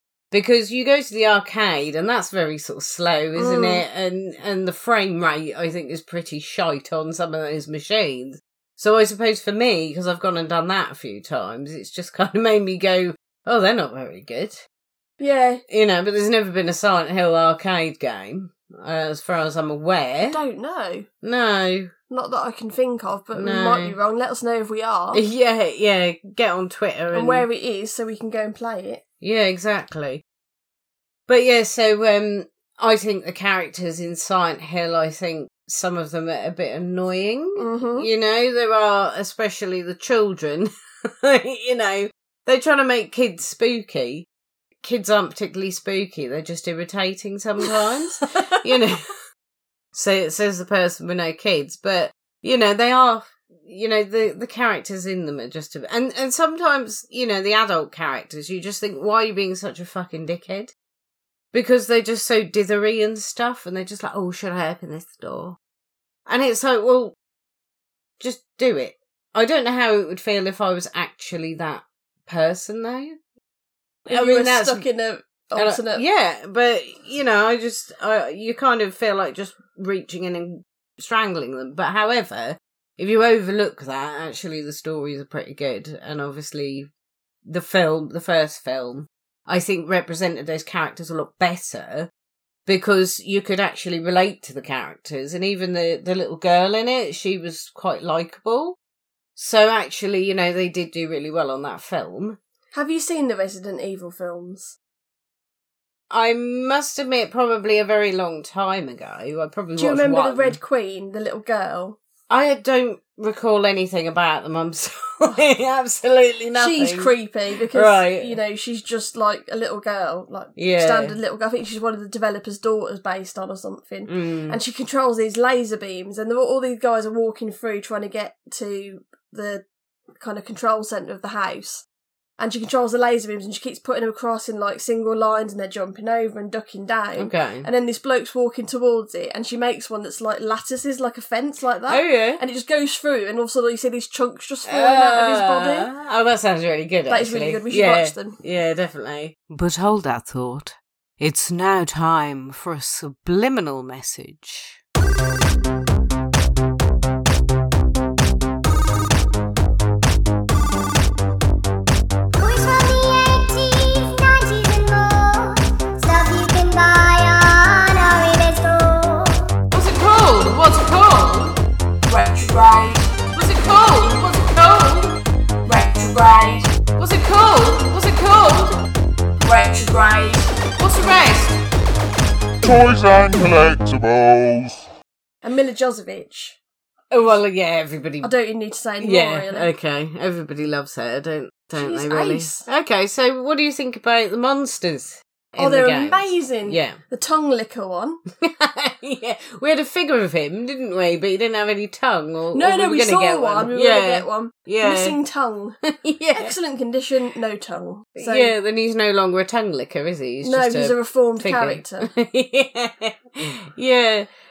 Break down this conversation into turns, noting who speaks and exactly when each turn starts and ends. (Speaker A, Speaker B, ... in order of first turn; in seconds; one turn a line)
Speaker A: 0.3-14.6
Speaker B: 3.3-3.8
Speaker B: 15.2-15.6
Speaker A: 15.7-20.4
Speaker B: 20.2-21.1
Speaker A: 21.2-21.9
Speaker B: 22.1-25.2
Speaker A: 23.3-23.9
Speaker A: 25.1-27.4
Speaker B: 27.1-29.0
Speaker A: 29.2-30.2
Speaker A: 31.3-44.2
Speaker B: 37.5-38.1
Speaker A: 44.8-49.0
Speaker A: 49.9-60.7
Speaker A: 61.5-65.6
Speaker A: 66.3-67.1
Speaker A: 68.2-73.2
Speaker B: 74.0-76.0
Speaker A: 74.1-74.8
Speaker A: 75.5-86.9
Speaker A: 87.4-92.1
Speaker A: 92.7-98.8
Speaker A: 99.3-102.4
Speaker B: 102.7-104.8
Speaker A: 106.1-110.6
Speaker B: 109.8-112.0
Speaker A: 112.3-117.1
Speaker B: 116.5-129.6
Speaker A: 117.7-118.3
Speaker A: 120.5-121.2
Speaker A: 124.1-124.6
Speaker B: 130.2-131.8
Speaker B: 132.4-145.9
Speaker A: 137.2-137.7
Speaker A: 141.9-142.4
Speaker A: 144.6-154.8
Speaker B: 147.1-148.4
Speaker C: 162.3-169.5
Speaker A: 169.7-171.6
Speaker B: 172.1-173.0
Speaker A: 173.3-175.2
Speaker B: 175.7-176.6
Speaker A: 176.9-178.8
Speaker B: 179.5-180.4
Speaker A: 180.8-181.6
Speaker D: 182.6-184.8
Speaker B: 185.4-186.6
Speaker A: 187.1-188.3
Speaker B: 188.2-189.7
Speaker A: 189.0-197.0
Speaker B: 191.7-192.7
Speaker B: 195.6-198.2
Speaker A: 198.4-205.2
Speaker B: 202.5-205.8
Speaker A: 205.8-206.5
Speaker B: 206.3-208.5
Speaker A: 208.2-214.3
Speaker B: 210.4-212.1